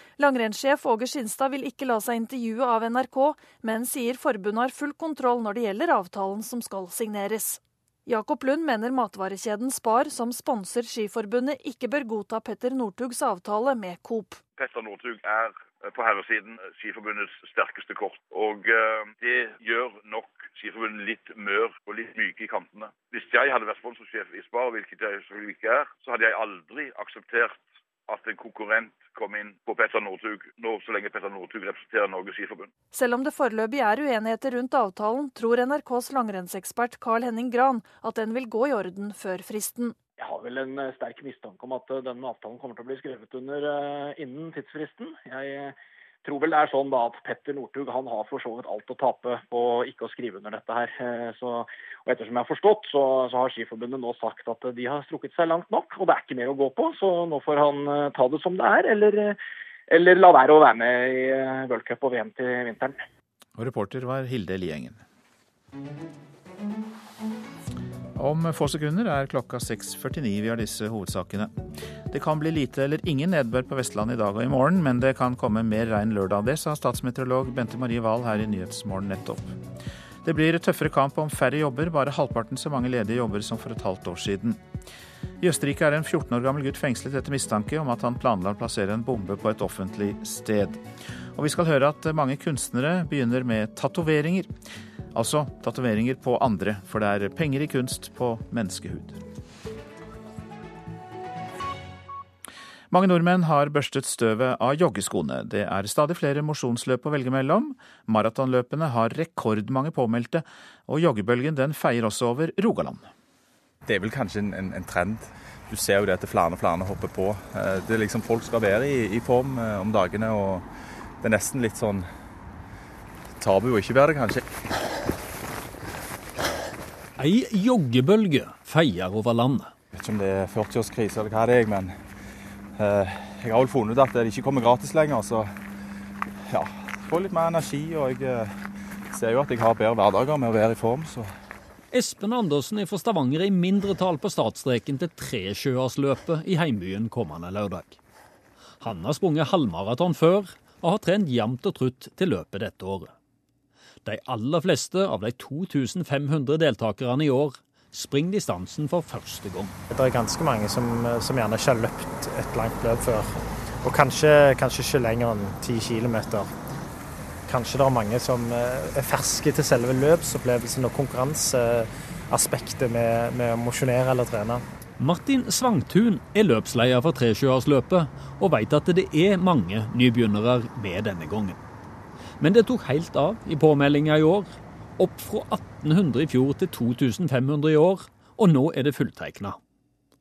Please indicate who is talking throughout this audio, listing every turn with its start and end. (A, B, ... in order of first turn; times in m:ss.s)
0:00.2-0:14.4 A
0:14.6-0:32.7 B
0:32.9-0:40.0 A
0:40.2-0:59.4 C
0:59.9-1:03.0 C
1:03.6-1:05.0 D
1:08.2-1:19.6 D
1:20.2-1:24.6 D
1:25.4-1:30.8 D
1:31.3-1:34.5 D
1:35.1-1:39.2 D
1:42.9-1:53.1 D
1:53.9-1:55.2 E
1:55.7-2:00.6 E
2:01.2-2:02.0 E
2:03.4-2:04.4 E
2:07.2-2:09.7 F
2:10.0-2:11.9 E
2:12.8-2:15.5 E
2:16.6-2:18.4 E
2:19.2-2:21.2 E
2:21.9-2:28.0 F
2:28.8-2:33.1 F
2:34.0-2:39.8 F
2:39.9-2:46.5 G
2:47.5-2:54.6 G
2:55.0-3:01.6 F
3:02.4-3:09.6 F